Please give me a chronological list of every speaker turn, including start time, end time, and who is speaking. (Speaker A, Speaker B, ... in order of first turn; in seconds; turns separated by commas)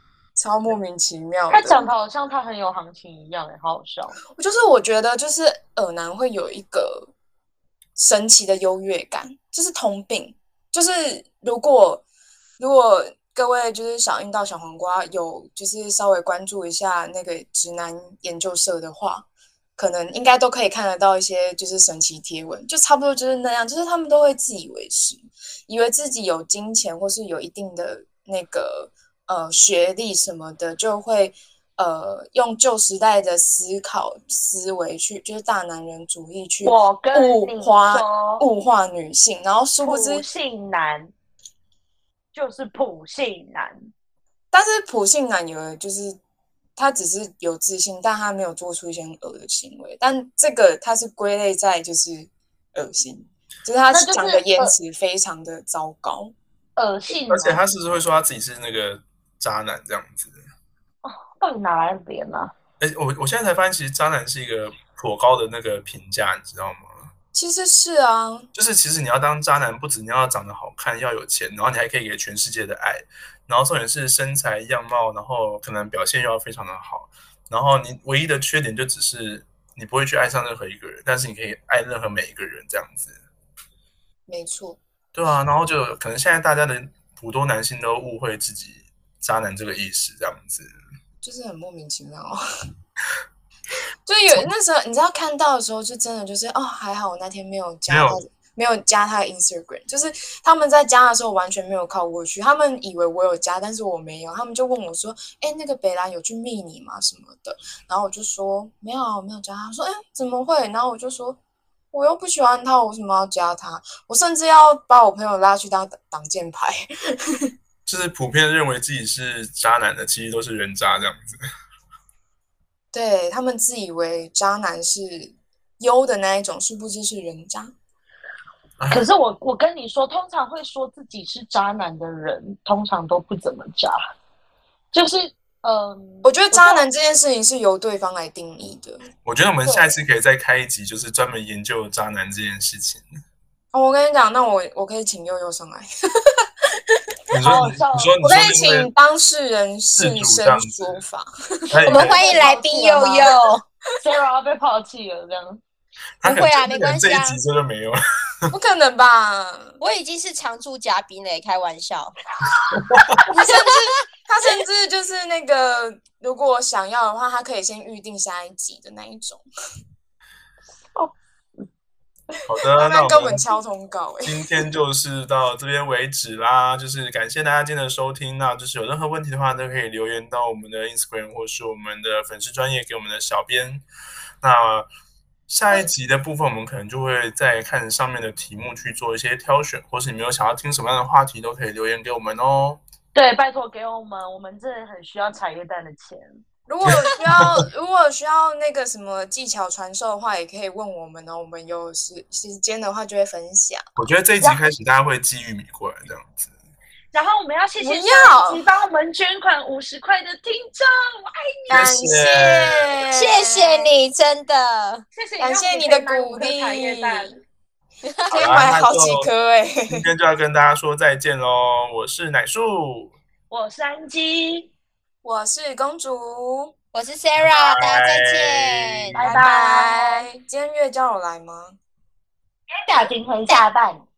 Speaker A: 0.3-1.9, Speaker B: 1.5-4.2, Speaker A: 4.3-7.1, Speaker A: 8.0-12.1, Speaker A: 12.6-19.3, Speaker A: 19.8-40.2, Speaker B: 36.6-38.5, Speaker B: 39.8-41.1, Speaker B: 42.3-43.9, Speaker A: 44.5-46.2, Speaker A: 46.8-56.3, Speaker B: 53.9-54.7, Speaker B: 56.8-57.6, Speaker C: 57.3-60.4, Speaker B: 61.0-62.5, Speaker C: 62.8-67.1, Speaker A: 67.3-68.5, Speaker C: 68.5-83.2, Speaker A: 84.3-84.8, Speaker C: 85.1-90.7, Speaker A: 91.2-92.4, Speaker A: 94.1-111.4, Speaker C: 97.9-98.2, Speaker A: 111.9-117.5, Speaker C: 117.9-121.4, Speaker A: 122.9-127.7, Speaker B: 128.9-134.0, Speaker B: 134.9-136.9, Speaker A: 136.2-139.1, Speaker C: 139.2-143.1, Speaker B: 139.6-139.9, Speaker A: 143.7-146.5, Speaker B: 147.3-148.2, Speaker C: 147.3-148.9, Speaker A: 148.2-153.3, Speaker C: 150.0-151.0, Speaker C: 151.7-152.3, Speaker D: 151.9-153.6, Speaker B: 152.2-153.3, Speaker B: 154.0-155.6, Speaker C: 156.2-158.5, Speaker D: 156.2-157.4, Speaker A: 158.5-159.8, Speaker D: 159.8-162.2, Speaker C: 162.7-163.2, Speaker A: 163.3-169.4, Speaker D: 163.4-163.8, Speaker C: 172.5-173.4, Speaker A: 172.8-174.4, Speaker C: 174.3-183.8, Speaker C: 184.4-184.9, Speaker C: 185.5-192.8, Speaker B: 193.1-196.4, Speaker A: 196.7-203.8, Speaker C: 196.9-197.5, Speaker C: 204.0-206.5, Speaker B: 207.1-211.9, Speaker A: 207.8-208.7, Speaker A: 211.7-213.9, Speaker C: 211.7-213.0, Speaker D: 213.1-215.1, Speaker B: 215.2-217.4, Speaker A: 215.4-217.3, Speaker D: 218.0-218.7, Speaker C: 218.3-219.3, Speaker A: 218.3-220.0, Speaker C: 219.9-223.2, Speaker B: 223.5-224.7, Speaker A: 225.2-226.7, Speaker D: 226.9-229.2, Speaker C: 227.4-229.2, Speaker B: 229.2-230.3, Speaker A: 229.2-231.8, Speaker B: 232.7-234.0